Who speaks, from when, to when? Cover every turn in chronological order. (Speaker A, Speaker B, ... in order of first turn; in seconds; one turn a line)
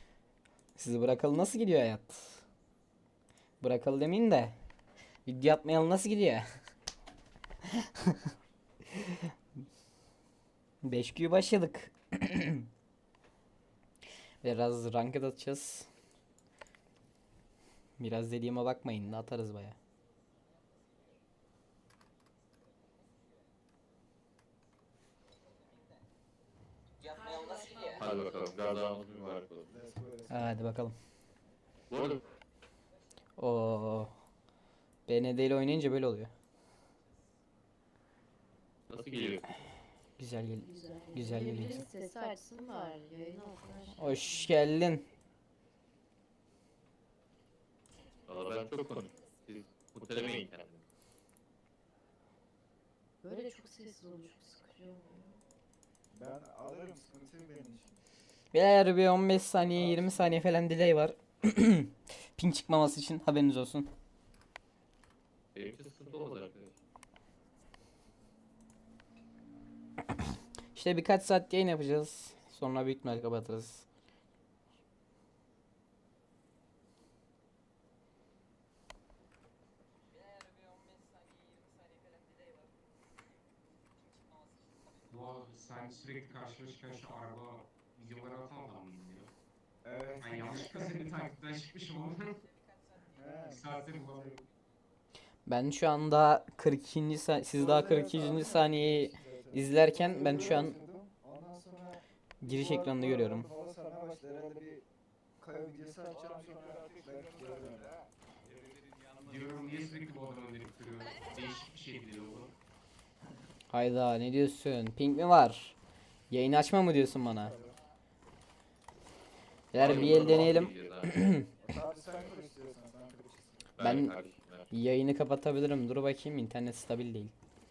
Speaker A: 0.8-2.4
Speaker A: 3.6-4.5
Speaker A: 5.3-6.5
Speaker A: 7.7-8.3
Speaker A: 8.9-9.2
Speaker A: 10.8-12.7
Speaker A: 14.4-15.9
Speaker A: 18.0-19.8
Speaker B: 27.9-29.7
Speaker C: 29.7-30.4
Speaker A: 30.3-30.9
Speaker B: 31.9-32.2
Speaker A: 33.4-34.1
Speaker A: 35.1-36.3
Speaker B: 38.9-39.5
Speaker A: 40.2-41.9
Speaker D: 40.6-44.5
Speaker A: 44.0-45.0
Speaker B: 48.3-50.8
Speaker D: 53.2-55.4
Speaker C: 56.1-57.9
Speaker A: 58.5-63.9
Speaker B: 65.5-66.7
Speaker A: 70.7-73.9
Speaker E: 85.1-89.3
Speaker C: 89.8-90.9
Speaker E: 90.2-92.4
Speaker C: 93.1-93.6
Speaker E: 93.5-94.5
Speaker A: 95.5-100.8
Speaker C: 97.5-104.8
Speaker A: 102.4-103.5
Speaker C: 105.4-107.9
Speaker E: 109.1-112.5
Speaker A: 113.7-115.8
Speaker A: 116.3-117.5
Speaker C: 117.5-117.7
Speaker A: 119.7-121.5
Speaker B: 119.7-121.4
Speaker C: 121.6-123.7
Speaker B: 123.8-124.7
Speaker A: 123.8-124.1
Speaker A: 124.7-127.3